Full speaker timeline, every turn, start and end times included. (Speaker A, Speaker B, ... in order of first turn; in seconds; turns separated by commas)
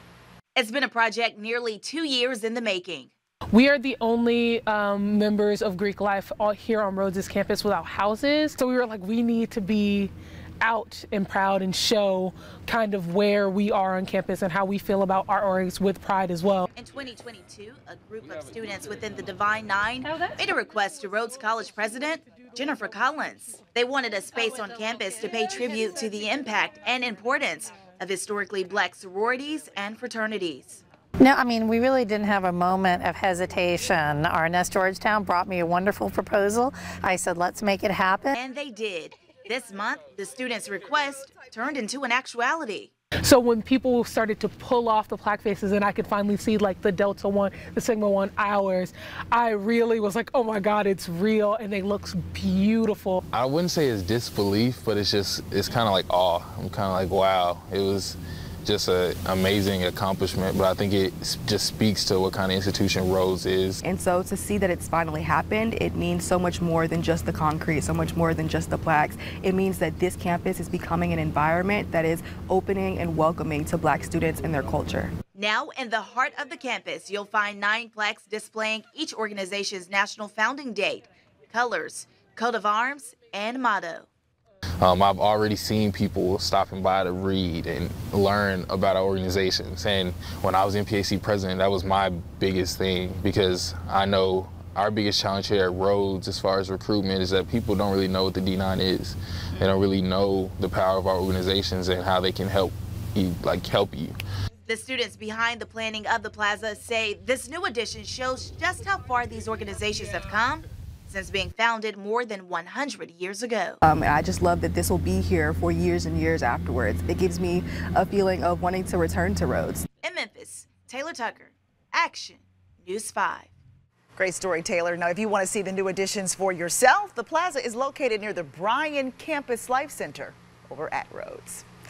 Speaker A: 0.5-3.1, Speaker B: 3.5-16.7, Speaker A: 16.8-30.8, Speaker C: 31.2-38.3, Speaker A: 38.3-42.9, Speaker B: 43.2-53.2, Speaker D: 53.3-63.8, Speaker E: 63.8-75.1, Speaker A: 75.3-84.1, Speaker D: 84.8-104.1, Speaker A: 104.7-113.8, Speaker E: 113.8-119.8, Speaker A: 120.0-123.5, Speaker F: 124.2-131.6